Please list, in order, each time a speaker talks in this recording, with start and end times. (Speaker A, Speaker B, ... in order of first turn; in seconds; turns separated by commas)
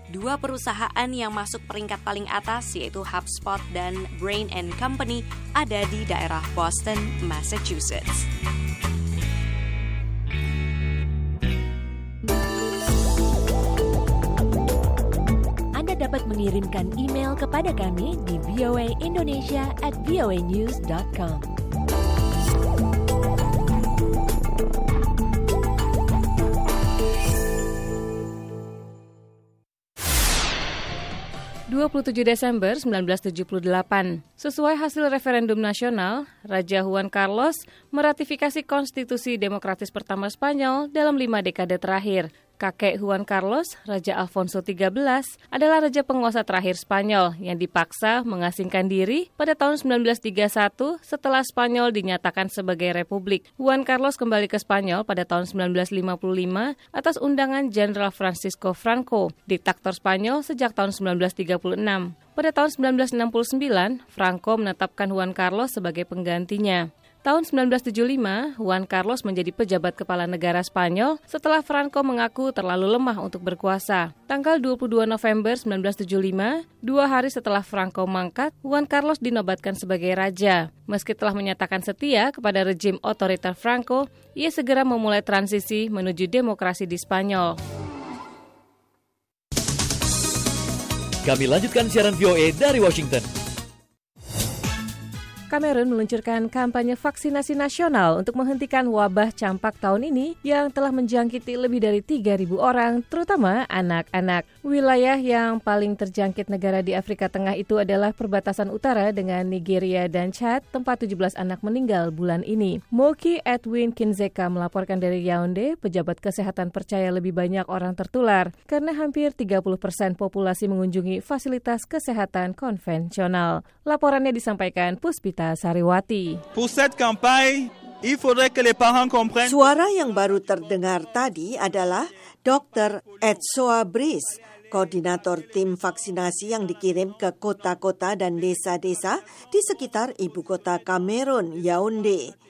Speaker A: 0.1-8.3, Speaker B: 15.8-21.5, Speaker C: 31.7-87.6, Speaker D: 91.2-93.2, Speaker C: 95.5-126.4, Speaker E: 126.5-129.6, Speaker F: 129.4-142.3